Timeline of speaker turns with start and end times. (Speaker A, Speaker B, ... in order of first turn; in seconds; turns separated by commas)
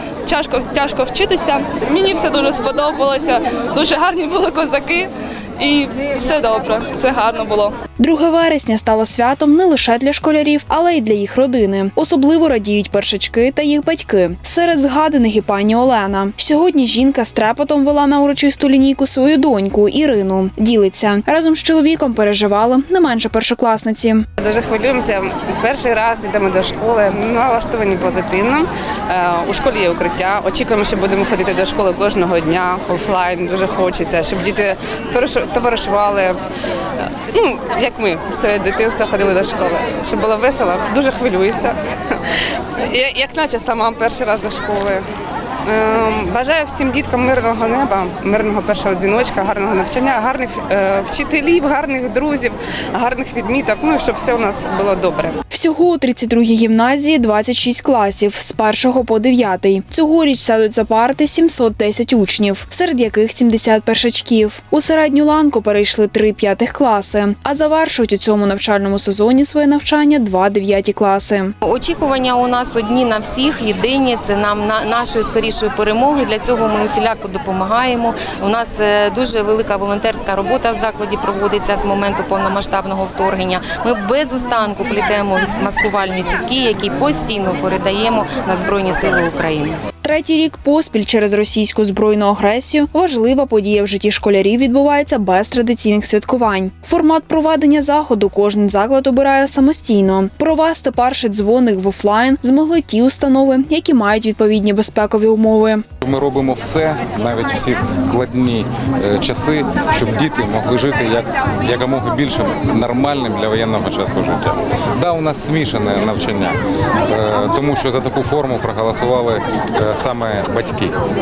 Speaker A: 0.3-7.7, Speaker B: 8.0-24.3, Speaker C: 24.4-36.4, Speaker C: 37.0-45.1, Speaker C: 45.6-55.4, Speaker B: 55.5-71.5, Speaker D: 71.6-89.8, Speaker B: 90.0-105.8, Speaker E: 106.0-121.0